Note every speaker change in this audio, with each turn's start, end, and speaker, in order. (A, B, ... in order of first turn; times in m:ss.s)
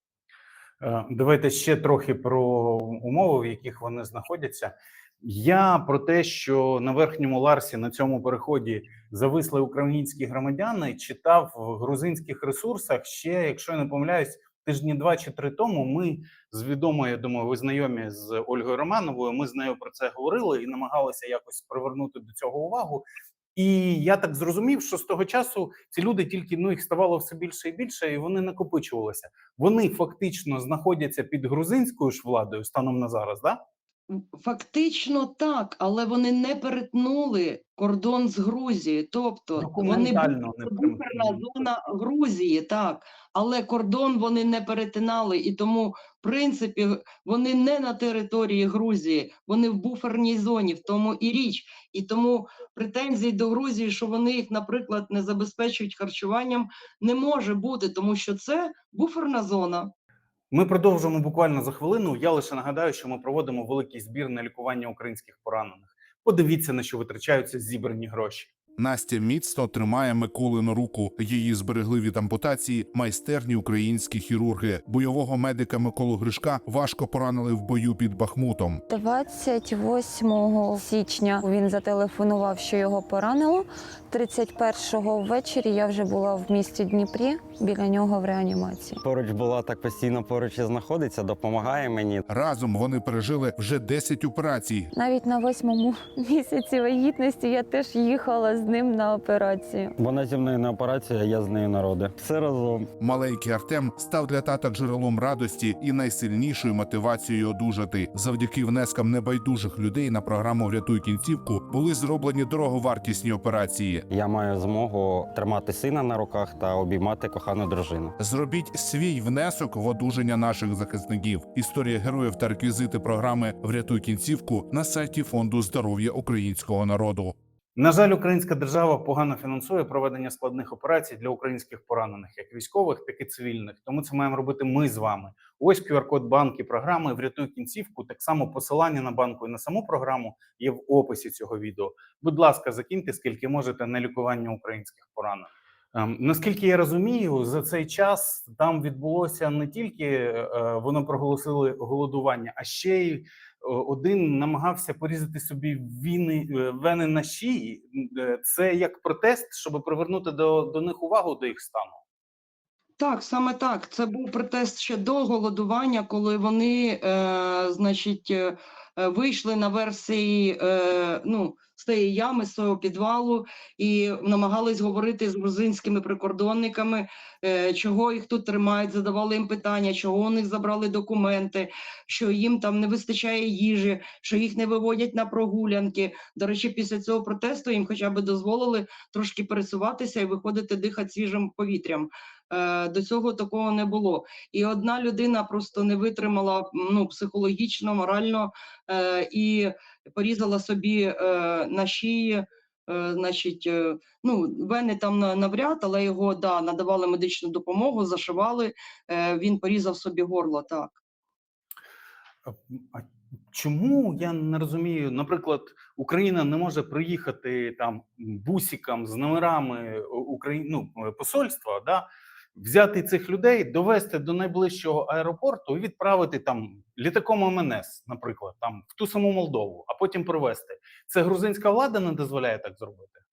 0:00.8-0:33.6 A
0:34.1-0:59.9 B
0:39.6-0:41.7 A
1:00.5-1:08.5 A
1:08.8-1:18.8 C
1:18.9-1:29.0 D
1:29.0-1:32.2 E
1:32.3-1:34.9 C
1:34.9-1:40.0 D
1:40.0-1:42.9 E
1:43.0-1:54.1 C
1:54.1-1:58.2 E
1:58.2-2:07.4 C
2:07.8-2:42.0 A
2:43.0-3:31.0 B
3:32.5-3:53.2 A